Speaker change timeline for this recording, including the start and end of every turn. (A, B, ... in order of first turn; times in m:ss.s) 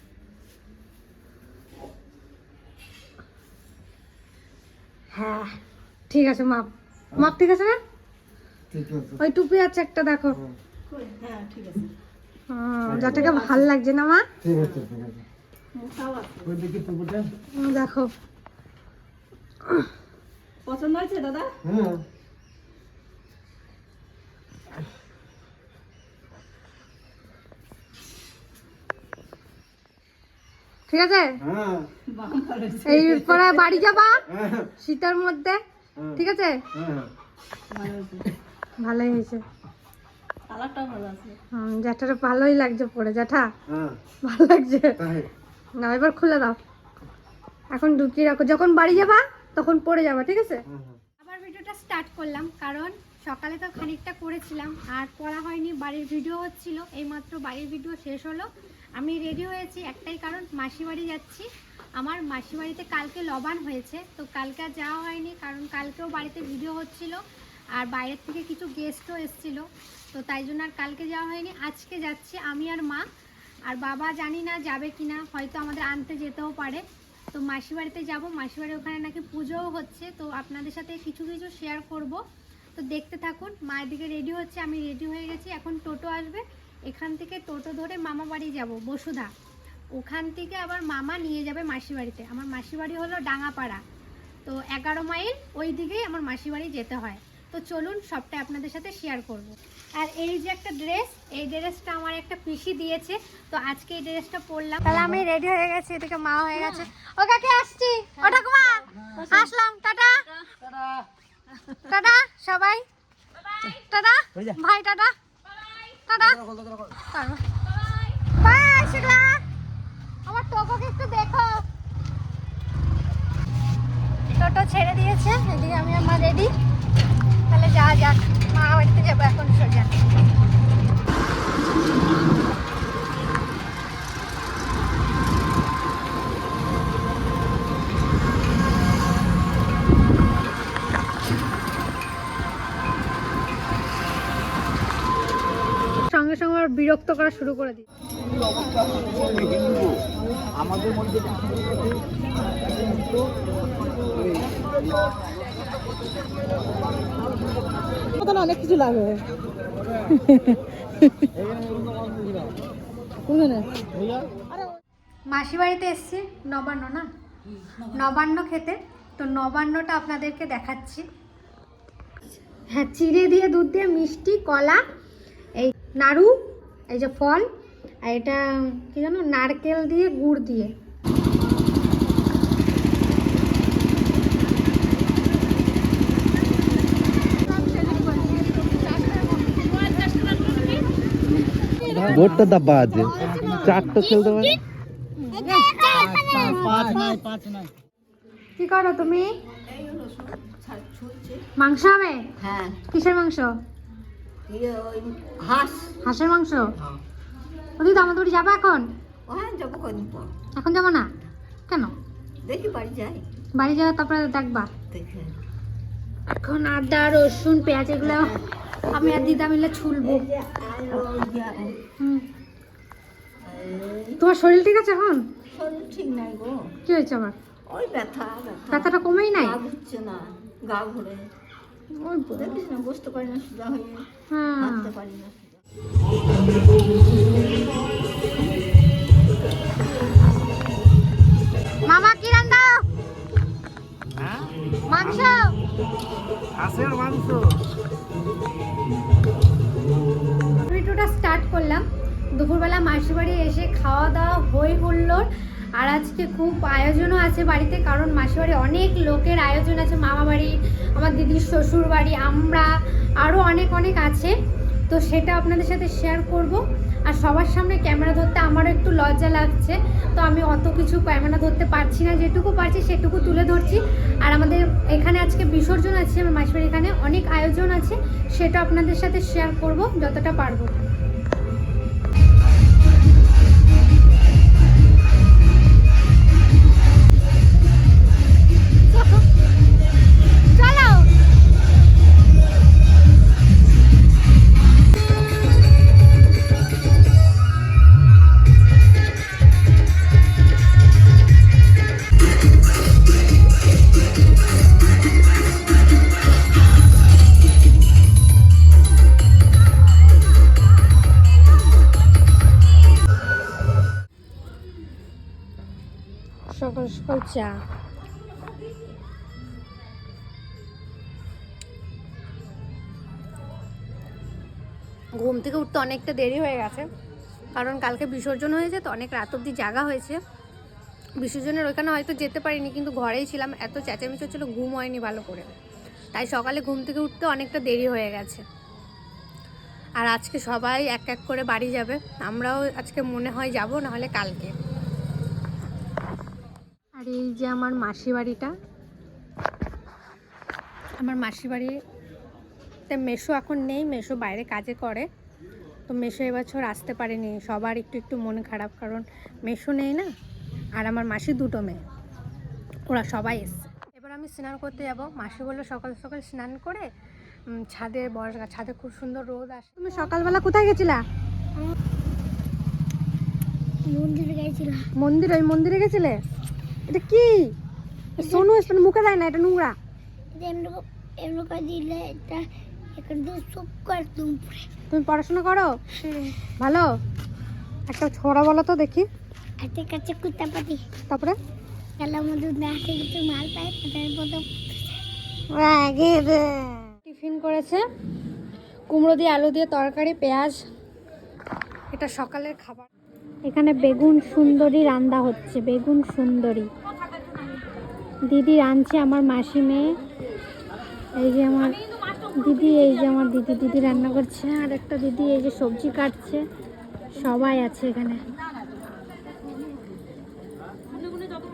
0:05.1-0:05.5 A
0:06.1-0:07.8 A
0:08.7-0:09.2 B
0:09.2-0:10.4 A
0:10.9-0:11.9 C
0:12.5-0:14.2 A
0:12.9-0:13.3 B
0:14.4-0:15.2 B
0:15.8-0:16.4 C
0:16.4-0:17.3 B
0:17.5-0:18.1 A
0:20.7-0:21.5 C
0:21.6-0:22.0 B
0:30.9-0:31.4 A
0:31.4-0:31.9 B
0:32.1-0:33.3 C
0:32.8-0:34.2 A
0:34.3-0:34.7 B
0:34.8-0:35.6 A
0:36.0-0:36.2 B
0:36.2-0:36.6 A
0:36.7-0:37.1 B
0:37.7-0:38.2 C
0:38.8-0:39.4 A
0:40.5-0:41.4 C
0:41.5-0:43.5 A
0:43.7-0:44.0 B
0:44.2-0:45.0 A
0:45.0-0:45.3 B
0:45.8-0:46.6 A
0:47.7-0:50.6 A
0:50.7-0:51.0 B
0:51.2-1:07.2 A
1:07.8-1:13.0 A
1:13.7-1:22.2 A
1:22.8-1:29.3 A
1:29.9-1:33.8 A
1:34.4-1:50.2 A
1:51.8-1:52.8 A
1:53.6-1:55.1 A
1:55.9-1:57.4 A
1:58.3-1:59.4 A
2:00.2-2:01.6 A
2:04.3-2:06.5 A
2:07.5-2:09.9 A
2:26.0-2:27.8 A
2:38.3-2:39.2 D
2:45.3-2:47.1 A
2:47.8-2:51.0 A
2:52.6-2:54.8 A
2:55.6-2:57.5 A
2:58.0-3:00.7 A
3:11.9-3:14.5 E
3:12.2-3:12.6 B
3:13.2-3:14.0 C
3:15.2-3:17.2 A
3:15.4-3:17.1 C
3:18.6-3:19.3 A
3:19.6-3:21.4 C
3:21.6-3:22.2 A
3:22.4-3:22.8 C
3:22.9-3:23.5 A
3:24.5-3:26.0 C
3:26.0-3:26.7 A
3:27.8-3:28.9 A
3:29.3-3:30.3 C
3:30.6-3:31.1 A
3:32.4-3:33.2 C
3:33.5-3:34.7 A
3:34.9-3:35.4 C
3:36.3-3:38.4 A
3:38.0-3:38.4 C
3:38.9-3:40.2 A
3:39.0-3:39.3 C
3:40.0-3:41.8 C
3:42.0-3:42.2 A
3:43.4-3:44.2 C
3:44.2-3:45.2 A
3:45.5-3:46.7 C
3:46.8-3:47.4 A
3:47.7-3:51.3 C
3:48.7-3:49.6 A
3:51.9-3:52.5 A
3:52.3-3:54.0 C
3:54.3-3:54.9 A
3:54.6-3:55.5 C
4:01.8-4:02.8 A
4:04.9-4:05.6 A
4:06.8-4:07.4 E
4:10.6-4:11.8 A
4:12.3-4:24.3 A
4:24.9-4:40.8 A
4:48.9-4:49.2 A
4:50.5-4:51.1 A
5:16.5-5:17.5 A
5:25.2-5:26.9 A
5:27.5-5:30.2 A
5:31.2-5:35.5 A
5:36.1-5:38.4 A
5:40.0-5:44.5 A
5:47.0-5:48.5 A
5:51.0-5:51.7 A
5:52.9-5:55.1 A
5:55.9-6:00.1 A
6:00.8-6:01.8 A
6:02.9-6:06.8 A
6:07.5-6:11.0 A
6:13.8-6:14.8 D
6:15.0-6:16.2 A
6:16.9-6:17.5 A
6:18.2-6:19.7 A
6:20.3-6:24.7 D
6:24.9-6:26.9 A
6:27.9-6:29.1 A
6:29.6-6:30.8 D
6:31.1-6:31.4 A
6:32.0-6:34.9 D
6:35.5-6:37.8 A
6:38.9-6:40.6 A
6:41.9-6:42.9 A
6:43.4-6:46.7 A
6:48.3-6:50.0 A
6:51.2-6:51.8 A
6:52.4-6:56.4 A
6:57.1-6:58.2 A